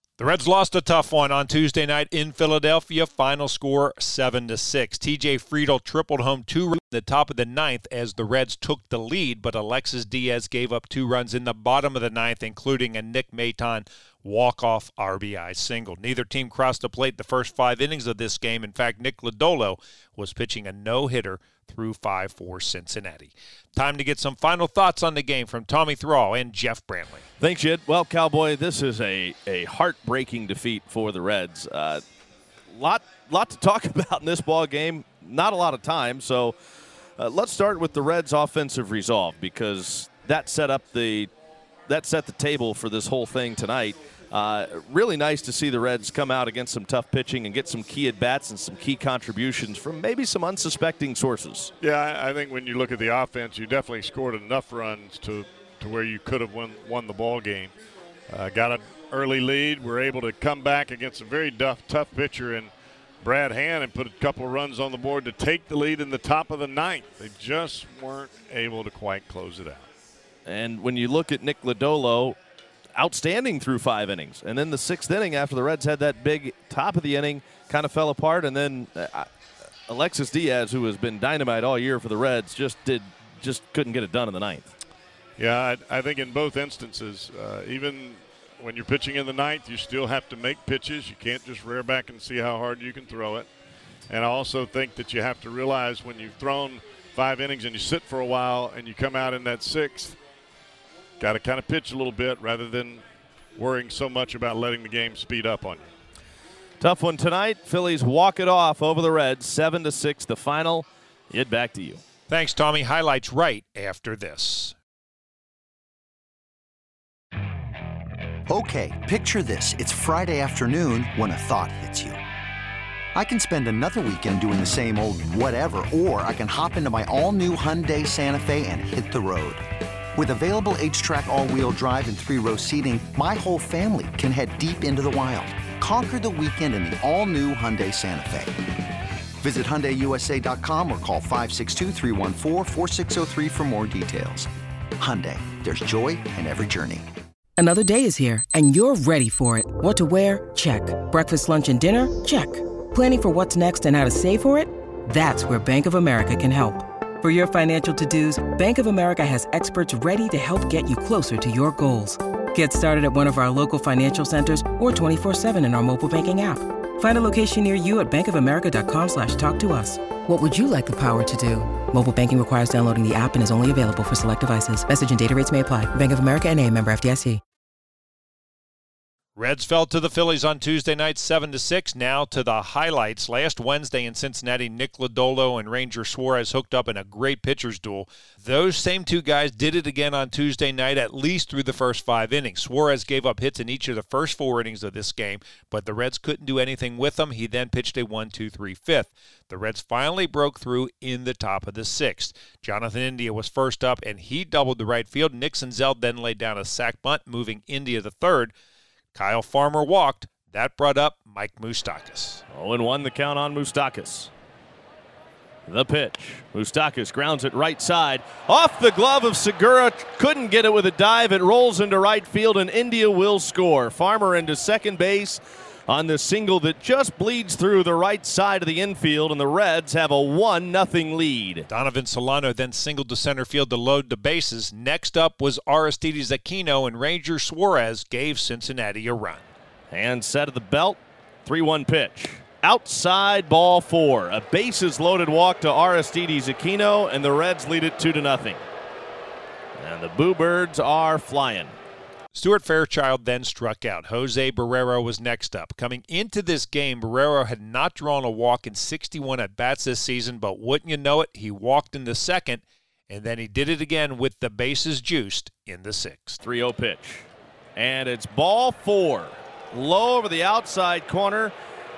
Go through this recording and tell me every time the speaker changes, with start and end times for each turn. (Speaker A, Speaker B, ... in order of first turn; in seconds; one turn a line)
Speaker A: 0.2-27.2
Speaker B: 27.4-32.0
Speaker B: 32.7-36.5
Speaker B: 37.2-41.3
Speaker B: 41.9-51.7
Speaker C: 51.8-57.7
Speaker C: 58.3-62.7
Speaker C: 63.2-69.9
Speaker B: 70.5-72.4
Speaker B: 73.0-79.3
Speaker B: 79.9-84.7
Speaker C: 85.4-93.5
Speaker C: 94.1-100.2
Speaker C: 101.2-103.0
Speaker C: 103.6-105.8
Speaker B: 106.8-112.0
Speaker A: 112.3-114.7
Speaker D: 118.5-122.2
Speaker D: 123.1-129.6
Speaker D: 130.1-138.6
Speaker D: 139.4-147.1
Speaker E: 147.6-177.4
Speaker A: 179.3-208.5
Speaker A: 209.1-212.4
Speaker B: 212.5-214.3
Speaker B: 215.7-231.7
Speaker A: 231.7-239.5
Speaker B: 239.9-248.6
Speaker B: 249.8-251.8
Speaker A: 252.3-266.4
Speaker B: 266.4-271.5